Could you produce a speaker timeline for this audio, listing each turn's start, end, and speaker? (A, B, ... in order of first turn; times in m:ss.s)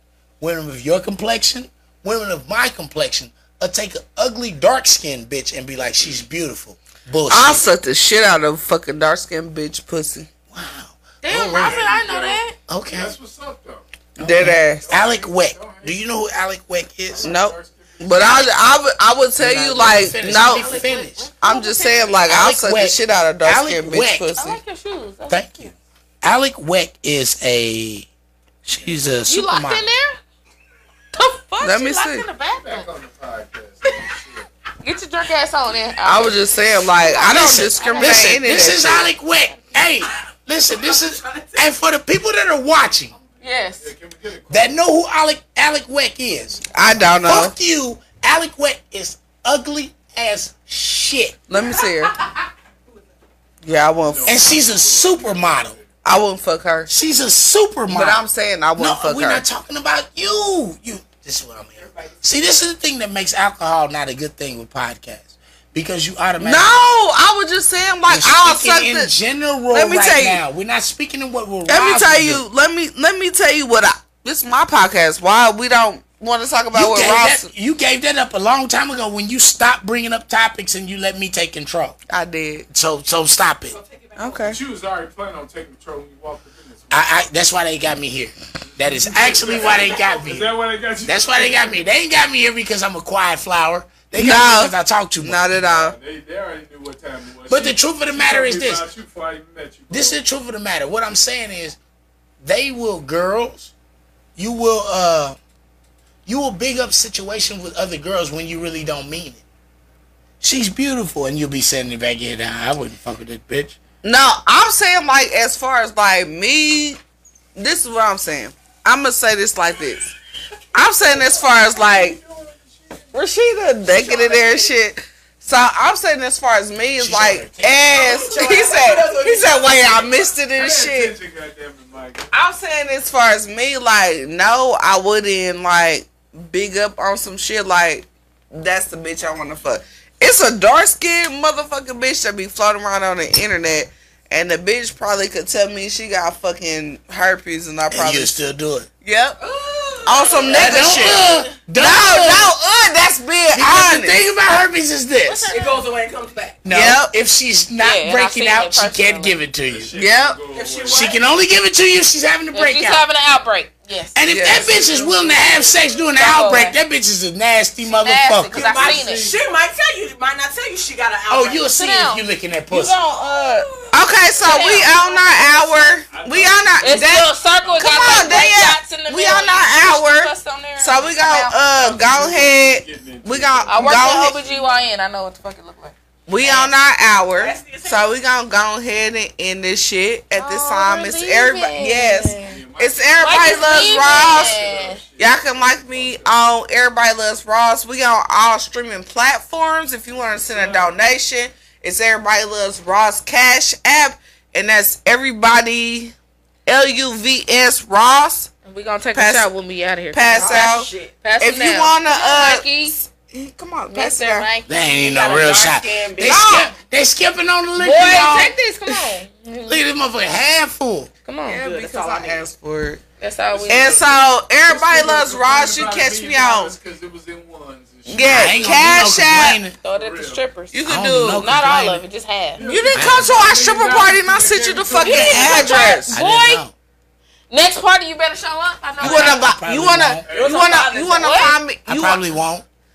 0:00.4-0:07.6 A
0:07.3-0:10.3 B
0:10.5-0:12.1 A
0:11.2-0:12.6 C
0:11.5-0:13.8 D
0:12.7-0:13.1 A
0:14.2-0:14.8 B
0:14.2-0:17.2 A
0:14.4-0:16.0 D
0:17.1-0:18.6 D
0:17.2-0:20.8 B
0:19.4-0:21.3 A
0:20.4-0:22.2 C
0:21.4-0:24.6 B
0:22.2-0:24.3 A
0:24.4-0:25.7 C
0:25.3-0:28.1 A
0:28.6-0:29.8 A
0:29.3-0:30.2 C
0:31.2-0:32.9 C
0:31.6-0:32.2 B
0:32.6-0:34.5 D
0:34.8-0:38.8 C
0:36.0-0:39.1 B
0:37.1-0:43.1 A
0:40.7-0:41.7 E
0:43.2-0:44.8 D
0:43.4-0:43.9 C
0:44.5-0:46.6 A
0:46.7-0:47.5 B
0:47.2-0:51.5 A
0:51.5-0:52.1 B
0:51.5-0:51.9 E
0:53.6-0:54.4 B
0:54.1-0:55.9 D
0:54.2-0:55.8 A
0:56.0-0:56.9 B
0:56.9-0:58.2 A
0:57.9-0:59.4 B
0:58.8-1:06.7 A
1:01.8-1:02.2 E
1:06.4-1:09.1 B
1:08.1-1:12.4 A
1:09.7-1:10.4 B
1:11.7-1:17.5 B
1:16.7-1:22.0 A
1:22.1-1:22.6 B
1:22.7-1:23.8 A
1:23.7-1:24.6 E
1:24.2-1:24.6 B
1:24.5-1:27.3 D
1:26.9-1:35.4 A
1:28.6-1:31.8 D
1:29.5-1:30.2 E
1:34.1-1:36.0 B
1:35.5-1:40.2 D
1:37.5-1:38.8 A
1:39.9-1:41.8 A
1:42.4-1:43.7 A
1:44.4-1:45.4 A
1:46.2-1:49.4 A
1:50.4-1:53.8 A
1:54.0-1:57.0 B
1:57.6-2:00.1 B
2:00.7-2:02.2 B
2:01.0-2:03.1 D
2:03.1-2:11.1 B
2:03.9-2:04.8 E
2:07.0-2:08.4 A
2:07.8-2:10.1 E
2:10.6-2:12.3 D
2:12.3-2:28.3 B
2:27.9-2:28.9 A
2:29.0-2:29.4 B
2:29.4-2:31.6 E
2:30.0-2:34.2 B
2:30.5-2:32.5 A
2:33.5-2:35.5 A
2:35.2-2:35.8 C
2:35.5-2:36.6 E
2:36.6-2:39.9 A
2:36.7-2:37.1 B
2:37.8-2:39.4 C
2:39.7-2:41.2 D
2:39.9-2:40.4 B
2:40.5-2:41.2 E
2:40.9-2:43.0 A
2:42.5-2:44.2 C
2:44.1-2:48.8 A
2:44.3-2:44.7 B
2:44.4-2:46.1 D
2:46.2-2:46.8 C
2:47.8-2:49.3 C
2:48.5-2:49.4 D
2:48.5-2:51.7 E
2:51.3-2:53.0 A
2:51.7-2:52.2 C
2:52.7-3:04.4 B
2:53.0-2:54.0 E
2:54.3-2:54.9 D
2:54.4-2:56.0 C
2:56.0-2:58.4 D
2:56.8-3:01.6 C
3:01.6-3:04.8 D
3:03.7-3:05.9 C
3:06.3-3:14.6 B
3:06.4-3:06.7 E
3:07.3-3:08.2 E
3:10.4-3:12.6 C
3:12.4-3:16.4 D
3:13.2-3:15.0 C
3:15.2-3:28.5 B
3:20.2-3:21.0 D
3:28.6-3:33.0 C
3:29.1-3:29.5 B
3:30.1-3:34.5 B
3:30.2-3:31.1 E
3:33.9-3:34.7 C
3:34.7-3:39.0 A
3:34.8-3:36.5 E
3:36.2-3:36.7 B
3:37.8-3:39.8 C
3:39.6-3:41.1 A
3:41.2-3:41.6 C
3:41.5-3:43.0 B
3:41.5-3:42.4 E
3:43.2-3:44.0 C
3:43.5-3:49.1 D
3:43.7-3:46.7 B
3:48.1-3:49.6 B
3:48.2-3:49.8 A
3:49.8-3:50.8 C
3:49.8-3:50.4 D
3:50.7-3:51.5 B
3:50.8-3:52.0 A
3:51.3-3:52.6 C
3:52.6-3:55.9 D
3:52.6-3:56.1 B
3:52.9-3:53.4 A
3:55.0-3:56.6 C
3:56.1-3:56.7 A
3:57.5-3:59.5 C
3:59.0-4:00.3 A
3:59.0-4:02.2 B
4:00.3-4:00.8 D
4:00.3-4:01.5 E
4:01.2-4:01.6 C
4:01.8-4:02.6 A